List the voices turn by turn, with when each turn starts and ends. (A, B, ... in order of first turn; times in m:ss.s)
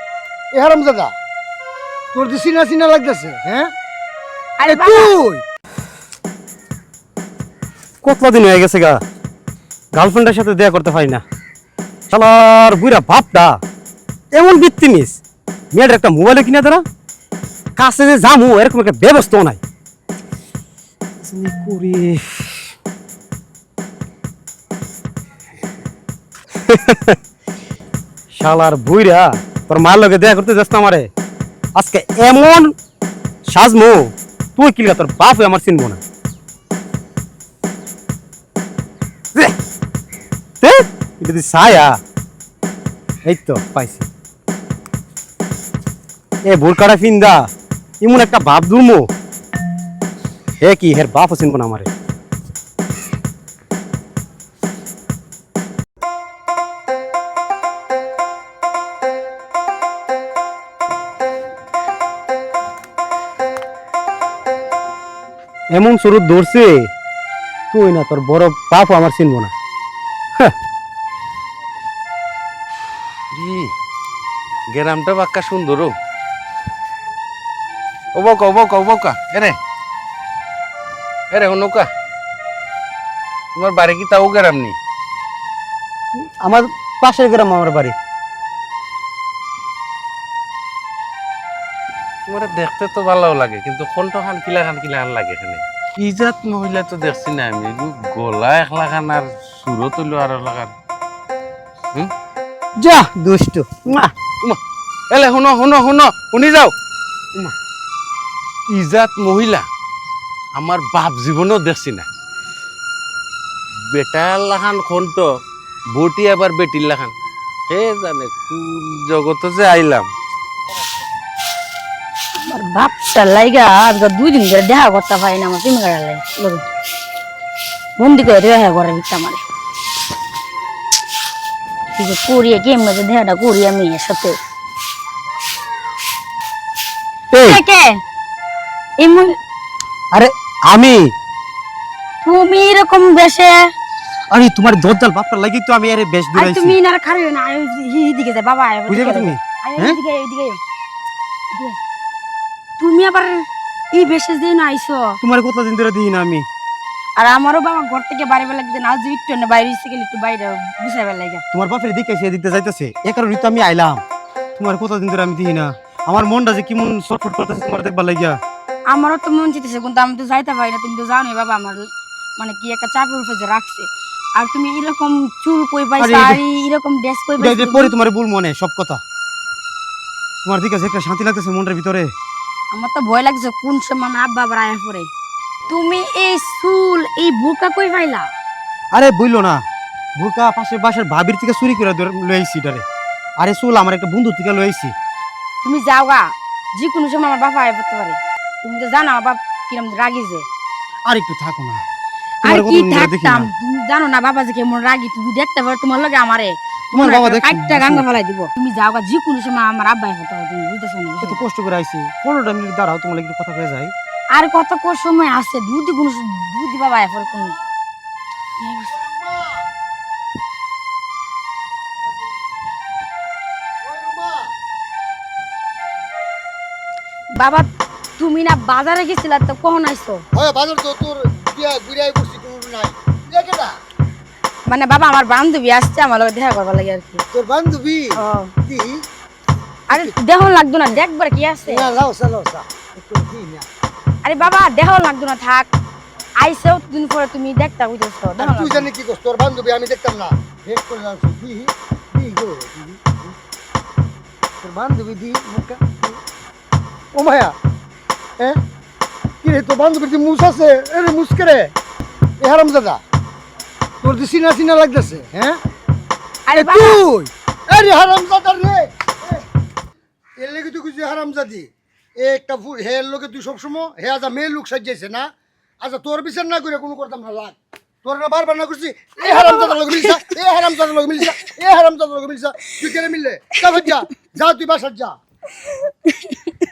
0:00.5-0:01.1 A
0:02.1-0:03.7 A
0:04.6-0:05.1 B
0:04.7-0:05.4 A
0:08.0-0:09.0 C
0:10.0-0:11.2 C
0:12.1-0:13.6 C
0:14.3-0:15.2 C
0:15.7-0:16.8 C
0:17.8-0:19.6 C
0:21.2-0:22.7 C
0:26.7-0:27.2 C
0:28.3-0:31.1 C
0:31.8-0:32.7 C
0:33.5-0:36.0 C
0:40.6-0:42.0 C
0:43.2-0:44.1 C
0:46.5-0:47.4 C
0:48.0-0:49.1 C
0:50.6-0:51.9 C
1:05.7-1:06.9 C
1:07.7-1:09.5 C
1:13.3-1:13.7 D
1:14.7-1:15.9 D
1:18.1-1:19.6 D
1:21.3-1:21.9 D
1:23.6-1:24.8 D
1:26.2-1:28.0 C
1:32.2-1:40.7 D
1:42.8-1:44.1 C
1:45.1-1:46.7 D
1:48.7-1:49.7 D
1:50.6-1:52.1 D
1:53.9-1:55.3 D
1:55.9-1:57.1 D
1:57.7-2:00.1 D
2:02.4-2:06.6 B
2:08.0-2:09.5 B
2:12.0-2:14.4 B
2:17.3-2:17.6 C
2:17.4-2:18.0 B
2:19.0-2:19.3 B
2:20.1-2:21.1 C
2:22.2-2:23.6 B
2:24.3-2:26.8 C
2:26.4-2:30.6 B
2:28.9-2:30.0 C
2:31.5-2:31.8 B
2:32.8-2:35.2 B
2:35.2-2:36.4 C
2:37.2-2:41.4 B
2:41.5-2:44.0 C
2:44.6-2:48.4 C
2:48.9-2:57.9 B
2:56.0-2:56.4 C
2:57.4-2:59.0 C
3:00.4-3:02.1 C
3:02.7-3:05.1 B
3:05.7-3:08.3 B
3:08.9-3:09.6 C
3:10.2-3:12.8 C
3:13.4-3:14.9 C
3:15.6-3:20.5 B
3:21.1-3:21.8 C
3:22.4-3:31.4 B
3:22.4-3:23.5 C
3:26.9-3:28.1 C
3:31.2-3:33.9 C
3:34.3-3:37.6 B
3:37.3-3:37.5 A
3:38.6-3:38.9 B
3:38.9-3:39.6 A
3:43.8-3:44.5 A
3:47.4-3:50.2 B
3:50.3-3:53.8 A
3:54.7-3:57.2 B
3:57.3-3:59.0 A
3:58.2-3:58.5 B
3:59.9-4:00.2 A
3:59.9-4:01.9 B
4:01.7-4:03.7 A
4:04.2-4:05.7 B
4:06.4-4:08.9 B
4:08.4-4:13.3 A
4:14.6-4:16.2 A
4:17.1-4:17.6 A
4:19.4-4:21.7 A
4:22.4-4:23.0 A
4:24.0-4:25.6 A
4:26.4-4:27.0 B
4:26.5-4:29.4 A
4:30.4-4:35.3 A
4:35.8-4:45.2 A
4:39.2-4:40.3 B
4:45.9-4:46.5 B